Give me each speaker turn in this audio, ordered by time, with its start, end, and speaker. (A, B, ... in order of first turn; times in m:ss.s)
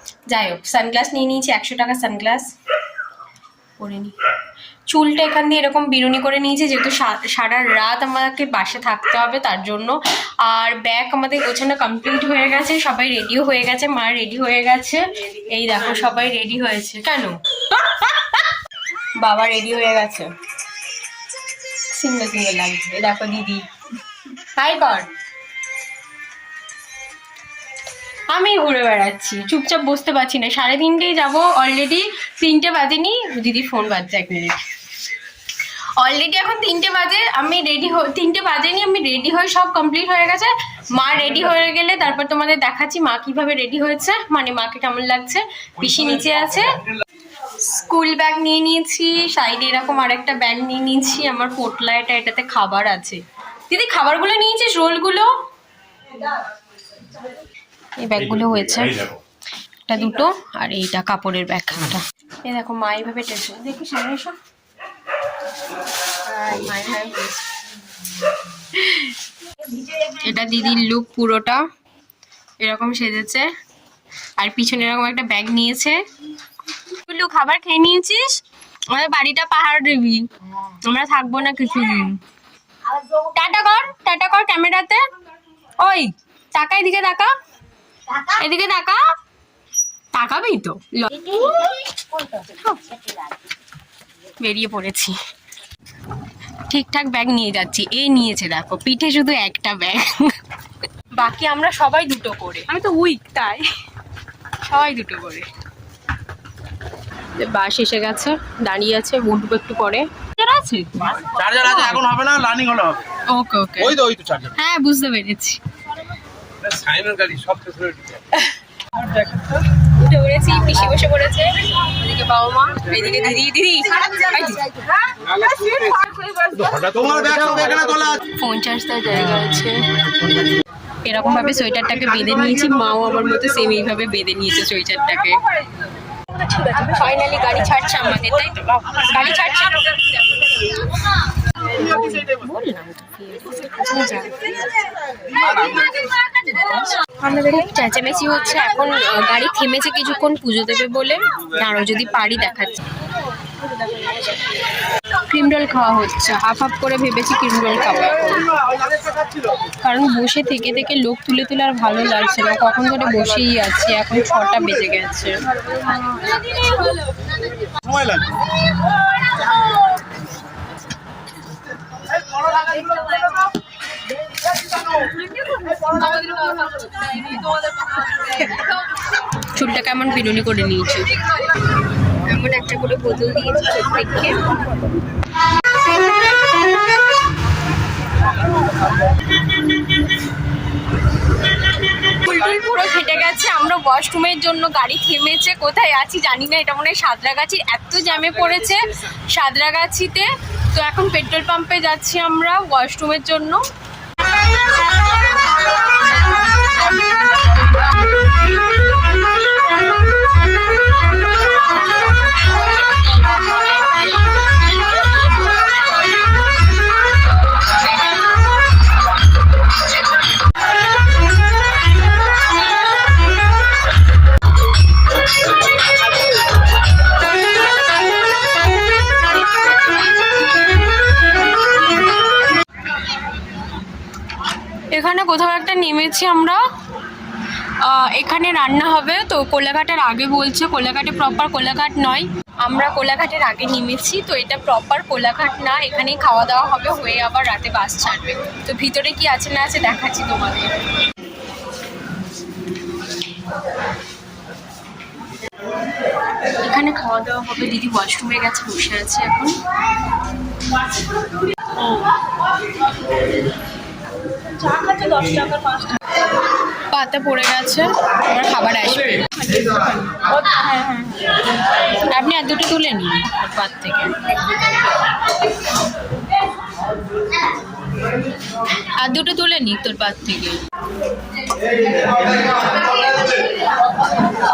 0:00.3-0:02.5 A
0:03.8-0:04.2 A
0:04.9-0:18.4 A
0:19.2-0:20.3 A
0:21.9-0:23.7 A
0:24.6-0:25.1 A
0:28.3-0:34.6 A
0:36.0-0:46.8 A
0:47.7-0:55.3 A
0:58.0-0:59.1 A
0:59.9-1:04.4 A
1:06.2-1:07.5 A
1:08.7-1:09.2 A
1:09.8-1:11.7 A
1:12.6-1:13.5 A
1:14.4-1:16.0 A
1:16.8-1:18.4 A
1:18.9-1:22.2 A
1:23.1-1:25.1 A
1:25.8-1:27.3 A
1:28.1-1:29.0 A
1:30.1-1:31.7 A
1:32.1-1:33.2 B
1:34.4-1:35.2 A
1:36.7-1:40.4 A
1:41.1-1:43.5 A
1:42.8-1:43.7 B
1:44.7-1:45.5 A
1:47.4-1:51.0 A
1:51.1-1:53.0 B
1:53.3-1:55.6 A
1:56.6-1:58.0 B
1:59.8-2:04.7 A
2:05.5-2:07.8 B
2:07.7-2:09.9 A
2:11.0-2:15.4 A
2:16.4-2:20.1 A
2:21.6-2:24.7 A
2:25.5-2:25.8 A
2:26.5-2:32.8 A
2:35.2-2:38.5 A
2:39.8-2:45.4 A
2:46.1-2:46.7 A
2:47.9-2:48.2 B
2:56.0-2:57.8 B
2:59.5-3:01.2 A
3:02.2-3:04.4 A
3:12.1-3:23.6 A
3:54.9-3:56.6 A
3:57.8-4:10.8 A
4:16.6-4:19.6 A
4:24.6-4:25.9 B
4:24.7-4:25.6 A
4:26.9-4:30.0 A
4:30.1-4:31.1 B
4:31.9-4:34.3 A
4:38.7-4:40.6 A
4:42.6-4:43.0 A